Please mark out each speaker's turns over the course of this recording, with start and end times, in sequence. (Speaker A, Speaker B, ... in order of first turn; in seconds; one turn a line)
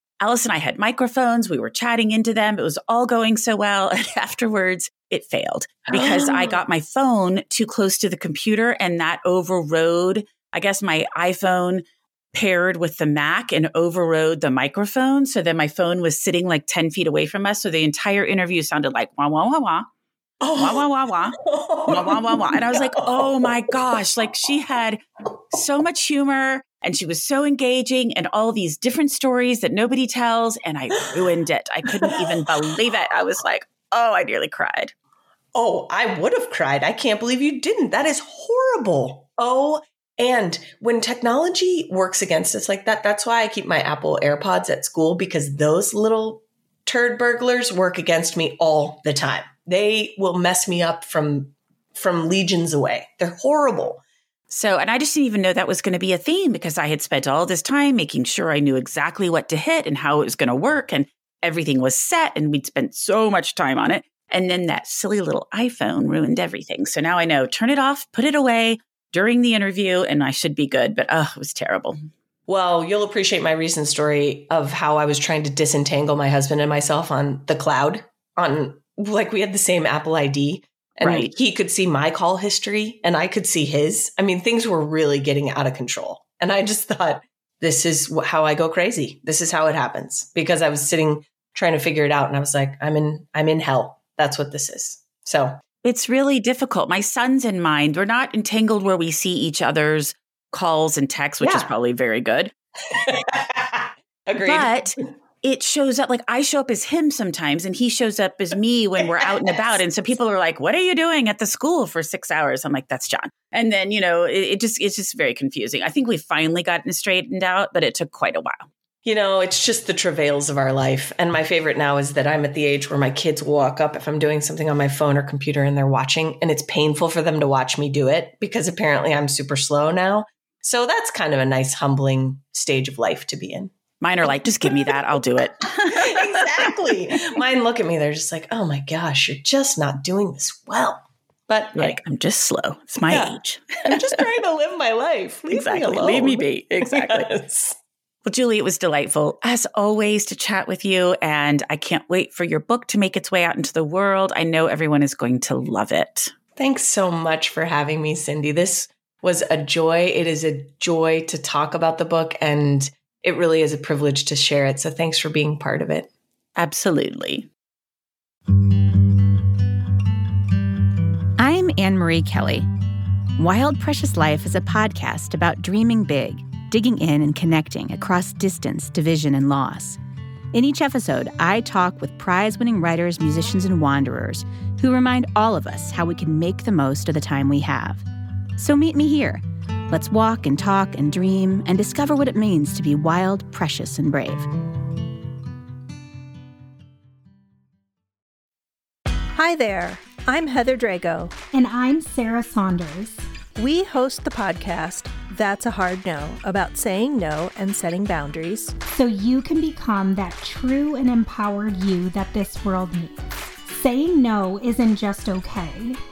Speaker A: 0.2-19.9
Speaker B: 5.9-6.6
Speaker B: 20.4-23.8
Speaker A: 20.6-34.9
Speaker B: 32.0-32.4
Speaker B: 35.5-54.0
Speaker A: 54.5-72.0
Speaker B: 72.5-95.6
Speaker A: 81.0-81.3
Speaker A: 95.8-102.5
Speaker B: 101.4-101.7
Speaker B: 102.9-104.7
Speaker A: 104.4-118.7
Speaker B: 109.0-109.8
Speaker B: 119.0-133.7
Speaker A: 134.0-136.8
Speaker B: 135.9-142.0
Speaker A: 141.8-144.2
Speaker B: 143.1-147.8
Speaker A: 145.5-147.3
Speaker A: 148.2-156.3
Speaker B: 156.6-166.1
Speaker A: 166.6-167.5
Speaker C: 171.4-172.7
Speaker C: 173.4-180.0
Speaker C: 180.5-188.1
Speaker C: 188.6-194.5
Speaker D: 199.3-201.4
Speaker E: 201.5-203.3
Speaker D: 203.6-208.8
Speaker E: 208.9-216.0